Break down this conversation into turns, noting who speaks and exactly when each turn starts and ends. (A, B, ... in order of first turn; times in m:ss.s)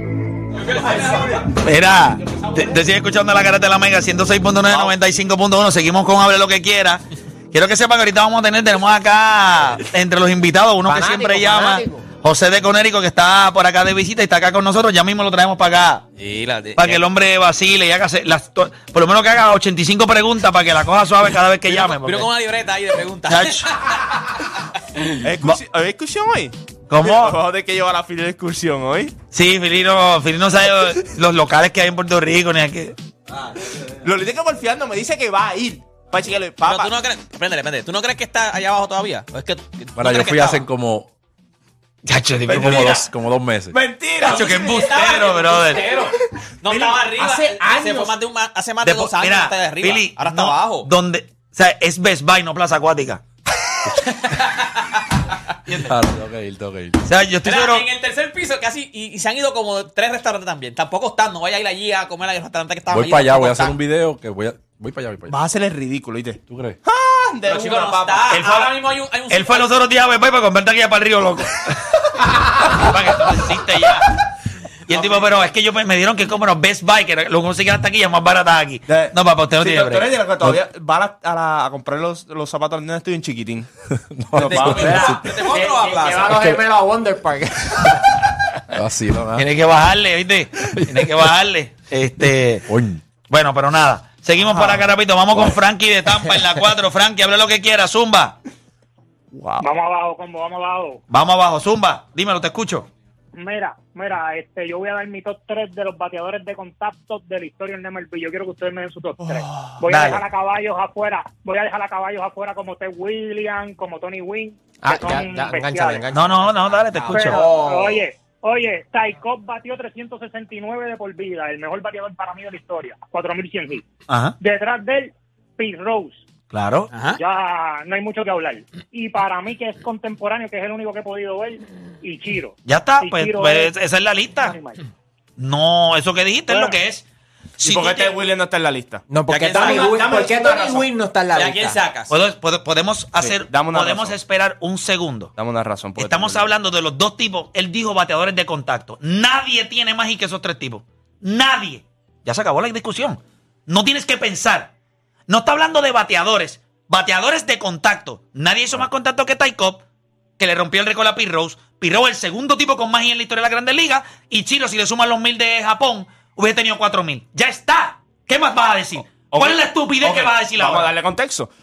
0:00.8-0:01.4 A
0:00.8-0:07.0 B
0:07.5-0:16.0 B
0:10.8-0:12.1 C
0:16.2-0:17.0 D
0:16.8-0:22.3 B
0:21.7-0:23.9 D
0:23.3-0:23.9 B
0:25.2-0:29.2 A
0:26.9-0:27.4 B
0:29.3-0:33.0 B
0:34.0-0:36.9 A
0:36.6-0:40.7 D
0:40.0-0:41.1 E
0:42.0-0:43.1 B
0:42.5-0:43.8 E
0:43.7-0:45.8 A
0:44.2-0:45.9 B
0:44.2-0:50.9 D
0:46.6-0:48.2 A
0:48.8-0:53.2 B
0:54.2-0:54.9 D
0:55.8-0:57.0 E
0:57.0-0:57.8 B
0:57.4-1:03.8 D
1:02.9-1:05.4 E
1:05.3-1:08.3 A
1:06.5-1:06.8 E
1:07.4-1:09.7 D
1:08.3-1:08.8 B
1:09.3-1:14.2 B
1:14.9-1:20.1 B
1:14.9-1:15.3 A
1:18.9-1:23.7 A
1:24.2-1:25.3 E
1:24.3-1:25.2 A
1:24.4-1:26.5 D
1:24.6-1:28.2 C
1:28.7-1:29.5 E
1:29.4-1:32.7 B
1:32.7-1:33.0 E
1:33.3-1:38.4 B
1:34.5-1:34.9 A
1:39.3-1:39.7 A
1:39.6-1:41.0 F
1:41.1-1:42.9 B
1:43.4-1:56.1 F
1:49.2-1:49.8 A
1:49.9-1:50.2 B
1:54.8-1:58.0 C
1:56.1-1:57.5 B
1:57.1-2:03.8 F
2:04.1-2:04.4 B
2:04.4-2:06.2 F
2:06.5-2:06.9 B
2:06.9-2:07.2 D
2:07.2-2:13.7 F
2:12.7-2:14.6 B
2:14.4-2:14.8 F
2:15.4-2:17.0 B
2:16.5-2:16.8 F
2:17.6-2:20.9 A
2:17.6-2:18.2 B
2:19.1-2:21.8 C
2:19.3-2:20.0 D
2:21.3-2:22.1 D
2:22.1-2:25.3 B
2:23.2-2:24.2 A
2:25.4-2:26.5 A
2:26.0-2:34.7 B
2:35.3-2:39.8 B
2:40.4-2:50.9 B
2:49.3-2:51.5 A